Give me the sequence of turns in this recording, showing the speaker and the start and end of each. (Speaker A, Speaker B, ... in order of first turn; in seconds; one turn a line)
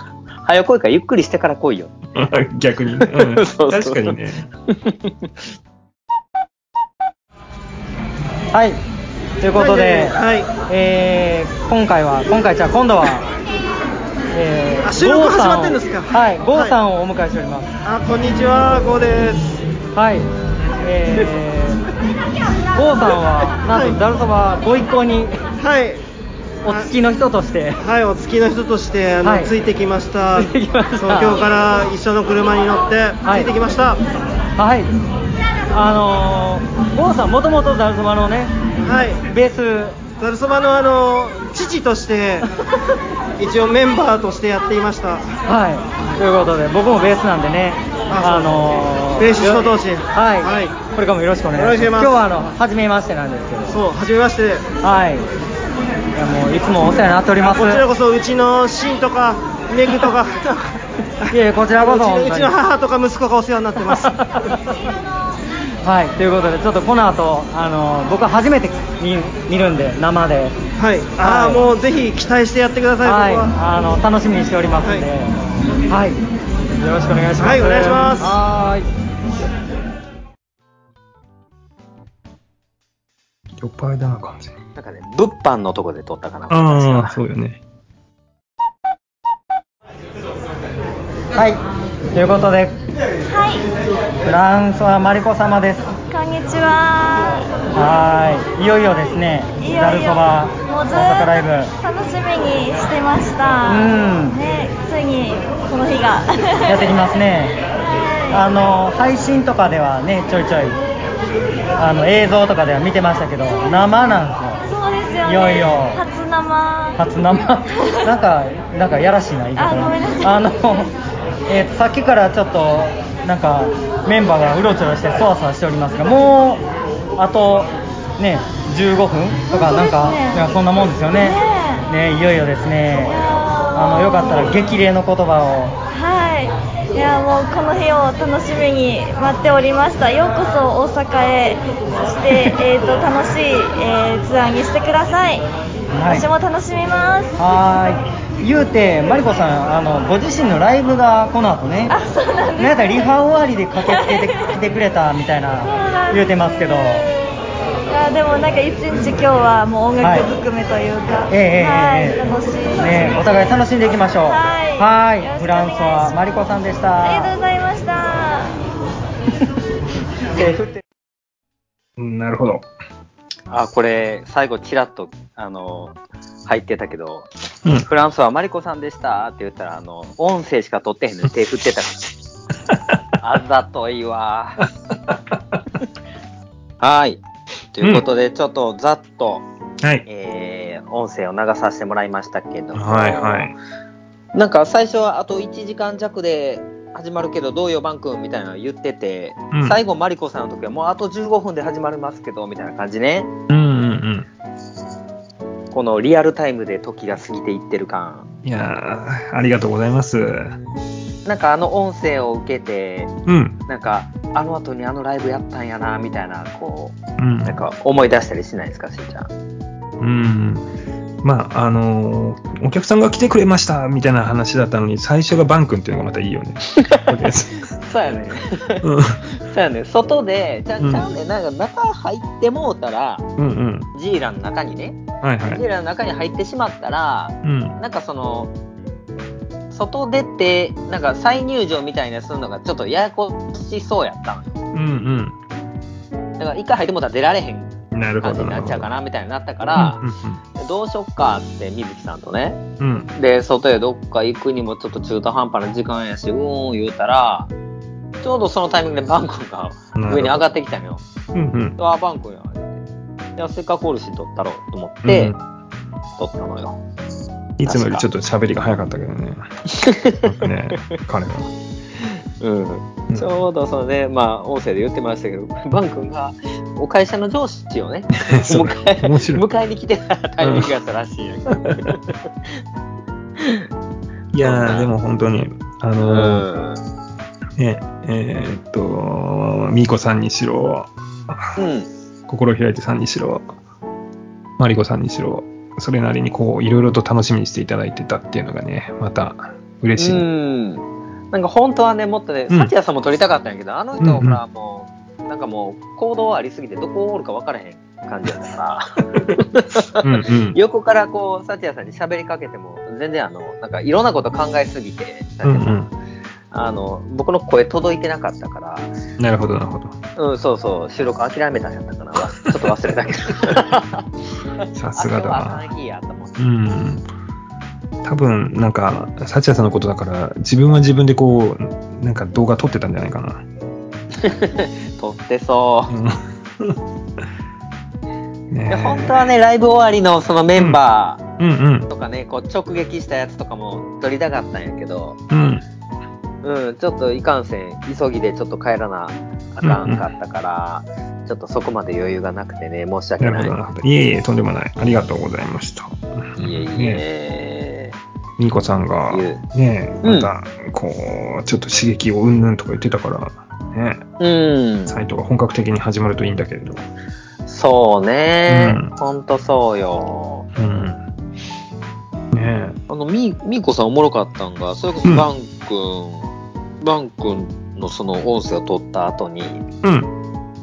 Speaker A: 0.4-1.9
Speaker B: 2.1-4.5
Speaker A: 3.0-4.2
Speaker A: 4.7-5.3
Speaker C: 8.5-8.8
Speaker C: 9.4-13.3
Speaker D: 9.5-10.5
Speaker C: 14.3-17.7
Speaker D: 14.8-16.8
Speaker D: 17.8-19.6
Speaker C: 19.9-20.3
Speaker C: 20.8-21.8
Speaker C: 22.8-25.4
Speaker D: 23.7-24.0
Speaker D: 25.6-26.0
Speaker C: 26.6-27.8
Speaker D: 27.8-34.0
Speaker C: 29.2-29.5
Speaker C: 30.4-31.4
Speaker C: 33.2-33.5
Speaker C: 34.6-34.9
Speaker C: 35.7-38.5
Speaker D: 38.8-39.2
Speaker C: 39.2-40.0
Speaker D: 40.2-42.5
Speaker D: 43.4-45.2
Speaker C: 45.5-53.8
Speaker D: 48.1-48.6
Speaker D: 49.2-50.8
Speaker D: 51.5-52.2
Speaker D: 53.7-54.6
Speaker C: 54.8-55.3
Speaker C: 56.1-57.8
Speaker D: 57.4-60.7
Speaker D: 61.2-64.1
Speaker C: 61.3-62.5
Speaker C: 64.0-64.6
Speaker C: 65.8-70.6
Speaker D: 70.8-73.5
Speaker C: 71.2-71.7
Speaker C: 73.0-75.3
Speaker D: 74.8-75.1
Speaker C: 75.9-76.2
Speaker C: 76.8-78.9
Speaker D: 77.3-78.4
Speaker B: 83.6-84.5
Speaker A: 84.8-87.2
Speaker B: 86.5-87.6
Speaker C: 91.3-91.6
Speaker C: 92.1-92.8
Speaker E: 93.2-93.7
Speaker C: 94.2-95.9
Speaker E: 96.1-97.5
Speaker C: 97.7-101.7
Speaker E: 99.6-107.0
Speaker C: 103.7-104.4
Speaker C: 106.7-107.6
Speaker E: 107.8-108.5
Speaker C: 108.3-110.8
Speaker C: 111.8-114.6
Speaker E: 114.7-117.0
Speaker C: 115.2-116.0
Speaker C: 117.0-120.9
Speaker E: 117.7-118.0
Speaker E: 119.5-120.8
Speaker C: 121.5-126.7
Speaker C: 127.2-131.4
Speaker E: 129.5-130.5
Speaker E: 131.1-131.9
Speaker C: 131.9-133.2
Speaker E: 133.1-134.6
Speaker C: 133.7-135.8
Speaker E: 135.9-145.5
Speaker C: 145.9-146.3
Speaker E: 146.1-147.4
Speaker C: 147.4-151.9
Speaker E: 151.9-153.1
Speaker C: 152.6-157.1
Speaker E: 153.8-154.6
Speaker E: 155.6-156.3
Speaker E: 157.9-163.5
Speaker C: 160.0-160.3
Speaker C: 161.3-162.2
Speaker C: 162.8-167.3
Speaker E: 164.2-166.2
Speaker E: 167.0-168.5
Speaker C: 170.3-170.8
Speaker B: 172.0-172.7
Speaker A: 173.5-177.3
Speaker A: 177.8-182.1
Speaker A: 183.2-184.7
Speaker A: 186.8-187.2
Speaker A: 187.7-189.4
Speaker A: 190.1-193.5
Speaker B: 192.7-193.5
Speaker A: 194.3-203.3
Speaker B: 199.5-199.8
Speaker B: 203.5-204.3
Speaker A: 205.7-208.3
Speaker B: 208.4-210.6
Speaker A: 211.2-213.1
Speaker B: 213.2-213.6
Speaker A: 213.7-219.3
Speaker B: 217.2-217.6
Speaker B: 220.0-220.7
Speaker B: 221.2-227.7
Speaker A: 227.7-233.3
Speaker B: 228.8-229.2
Speaker B: 230.8-231.1
Speaker B: 233.4-233.9
Speaker A: 233.9-238.5
Speaker B: 235.2-235.6
Speaker B: 237.4-237.8
Speaker A: 239.7-244.6
Speaker B: 244.7-245.3
Speaker A: 246.4-250.0
Speaker B: 247.9-248.9
Speaker B: 249.8-250.4
Speaker A: 250.6-252.6
Speaker B: 252.8-253.1
Speaker A: 253.2-257.5
Speaker A: 258.2-261.0
Speaker B: 259.9-260.4
Speaker B: 261.3-261.8
Speaker A: 261.8-262.8
Speaker A: 263.4-265.3
Speaker B: 265.0-265.4
Speaker A: 266.2-266.8
Speaker B: 267.6-269.5
Speaker A: 267.6-268.1
Speaker A: 269.7-270.4
Speaker B: 270.2-271.5
Speaker A: 272.0-282.6
Speaker B: 273.1-273.4
Speaker B: 278.2-279.4
Speaker B: 280.4-280.7
Speaker A: 283.4-283.7
Speaker B: 284.3-286.4
Speaker A: 284.4-284.9
Speaker A: 286.0-286.8
Speaker B: 287.6-291.6
Speaker A: 291.6-291.9
Speaker B: 292.3-293.5
Speaker B: 294.6-300.2
Speaker A: 300.0-315.8
Speaker B: 304.0-304.4
Speaker B: 310.0-310.6
Speaker B: 315.4-315.9
Speaker A: 316.5-318.9
Speaker B: 319.2-320.0
Speaker A: 320.1-324.0
Speaker A: 324.6-326.4
Speaker B: 324.7-325.7
Speaker B: 326.4-327.1
Speaker B: 328.0-333.4
Speaker A: 334.2-335.9
Speaker B: 335.9-336.8
Speaker B: 338.5-339.3
Speaker A: 338.7-341.2
Speaker B: 340.6-340.8
Speaker B: 341.4-341.9
Speaker A: 341.9-345.2
Speaker B: 345.3-345.6
Speaker A: 346.4-353.5
Speaker B: 349.6-350.1
Speaker B: 353.2-357.0
Speaker A: 356.4-357.9
Speaker B: 358.4-364.0
Speaker A: 359.1-359.4
Speaker A: 360.0-360.3
Speaker A: 364.2-364.9
Speaker B: 364.9-366.9
Speaker A: 367.4-370.5
Speaker B: 368.5-368.9
Speaker B: 370.5-371.0
Speaker B: 372.3-372.8
Speaker A: 372.9-376.3
Speaker A: 376.8-379.6
Speaker B: 379.8-380.1